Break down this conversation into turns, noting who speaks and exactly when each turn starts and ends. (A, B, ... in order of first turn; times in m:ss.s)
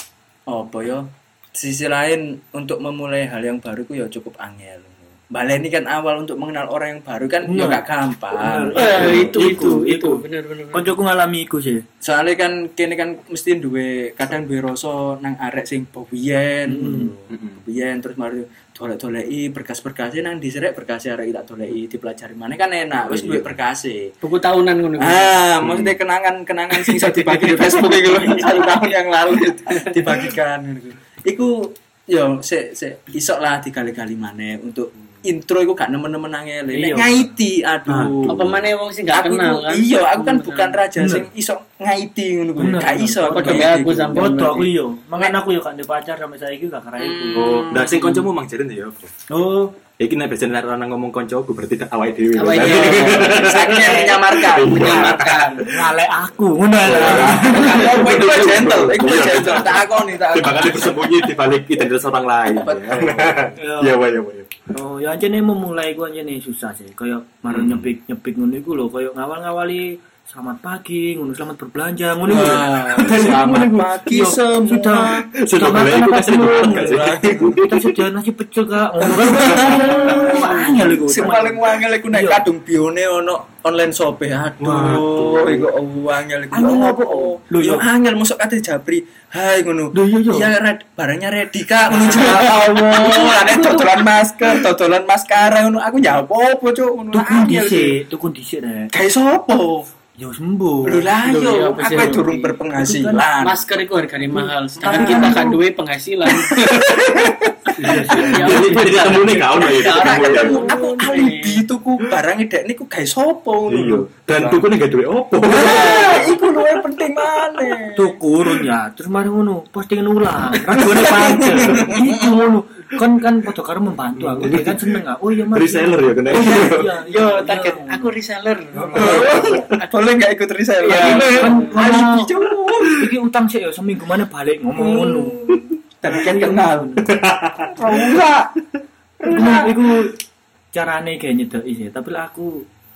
0:00.5-0:09.6 A
0:07.4-0:11.8 B
0:08.7-0:10.9 C
0:12.0-0:24.1 A
0:16.6-0:17.1 B
0:17.3-0:17.6 D
0:23.0-0:23.5 D
0:24.2-0:25.4 C
0:25.0-0:38.5 A
0:25.6-0:26.0 D
0:26.9-0:28.8 C
0:36.7-0:37.3 B
0:37.9-0:38.6 D
0:38.3-0:40.8 C
0:39.1-0:44.3 A
0:41.0-0:41.3 B
0:42.6-0:47.8 B
0:43.3-0:44.7 C
0:47.0-0:48.1 A
0:47.3-0:49.1 D
0:49.3-0:49.8 B
0:50.0-0:55.6 D
0:52.3-0:53.9 C
0:52.6-0:55.6 A
0:53.7-0:54.2 B
0:54.7-0:55.6 C
0:55.6-0:58.2 B
0:56.8-1:04.5 D
0:56.9-1:01.1 A
1:02.5-1:03.5 A
1:03.6-1:04.0 B
1:04.7-1:22.4 B
1:07.5-1:07.9 D
1:12.3-1:15.2 A
1:15.4-1:18.0 D
1:16.4-1:17.6 A
1:19.0-1:38.0 A
1:24.6-1:25.7 D
1:26.5-1:27.9 B
1:29.9-1:30.5 B
1:31.9-1:34.1 B
1:37.1-1:38.9 B
1:38.9-1:39.9 A
1:40.2-1:41.1 B
1:40.8-1:43.6 A
1:41.2-1:42.6 C
1:42.7-1:43.3 B
1:43.4-1:46.9 C
1:44.3-1:45.6 B
1:44.8-1:45.5 A
1:46.3-1:48.2 A
1:47.8-1:49.0 B
1:47.8-1:50.6 D
1:48.1-1:51.6 C
1:49.5-1:54.6 A
1:53.7-1:56.4 D
1:55.4-1:58.2 A
1:55.8-1:56.3 C
1:57.9-2:08.1 B
2:00.7-2:02.4 A
2:04.1-2:05.0 D
2:05.5-2:06.9 D
2:07.0-2:09.9 C
2:08.7-2:09.6 B
2:08.9-2:13.1 A
2:09.2-2:09.6 D
2:10.8-2:11.8 C
2:10.9-2:12.3 B
2:12.8-2:15.4 B
2:14.8-2:18.5 A
2:16.0-2:17.1 B
2:17.0-2:18.1 D
2:19.2-2:19.8 A
2:19.2-2:20.1 B
2:20.7-2:22.6 B